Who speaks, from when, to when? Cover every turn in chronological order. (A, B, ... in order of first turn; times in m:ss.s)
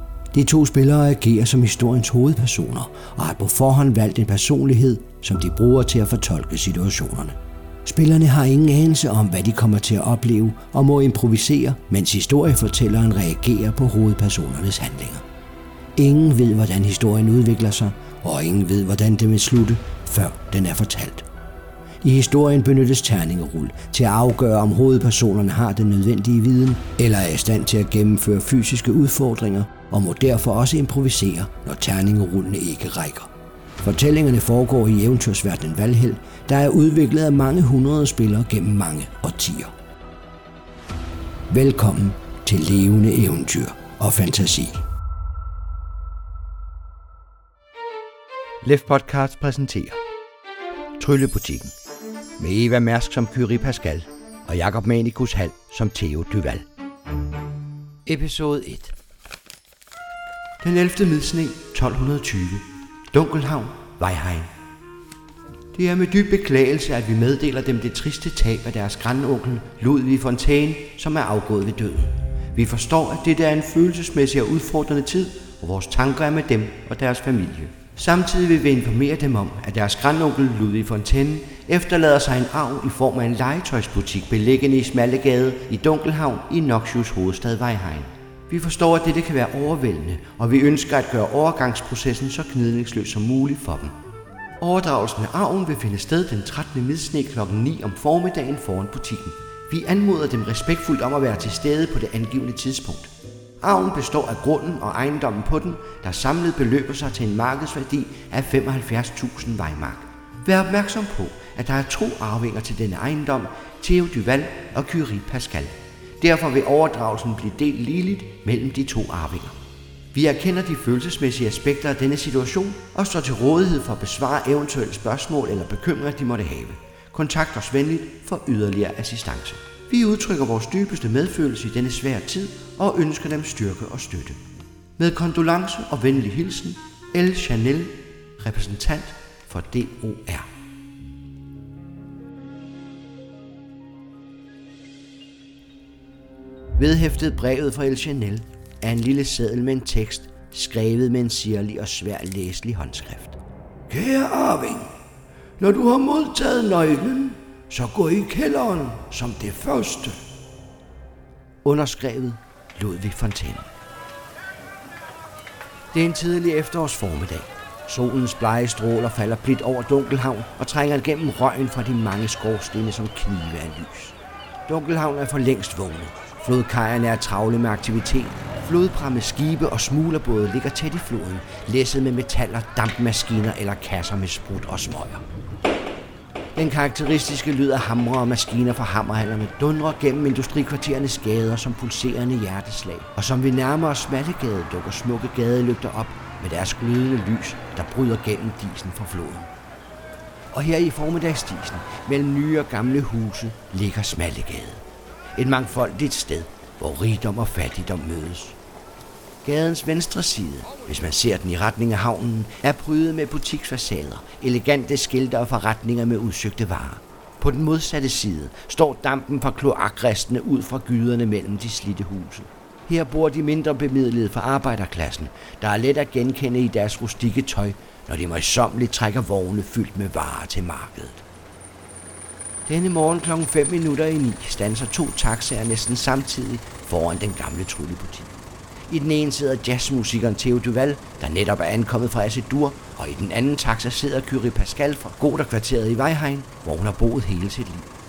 0:00.3-0:15.2 A
0:16.0-0:21.2 A
0:22.0-0:33.3 A
0:33.8-0:39.7 A
0:41.5-0:44.8 A
0:48.6-0:50.0 A
0:51.0-0:51.8 A
0:52.4-0:56.6 A
0:58.1-0:59.0 A
1:00.6-1:04.5 A
1:05.7-1:33.9 A
1:34.6-1:43.1 A
1:43.6-1:59.6 A
2:00.1-2:14.4 A
2:15.0-2:20.5 A
2:26.8-2:33.4 A
2:33.9-2:34.9 A
2:35.6-2:40.2 A
2:41.6-2:43.7 A
2:45.9-2:54.2 A
2:54.7-3:05.2 A
3:06.6-3:19.5 A
3:20.5-3:24.8 A
3:25.4-3:28.6 A
3:29.4-3:51.2 A
3:52.7-3:58.3 A
3:58.9-4:07.9 A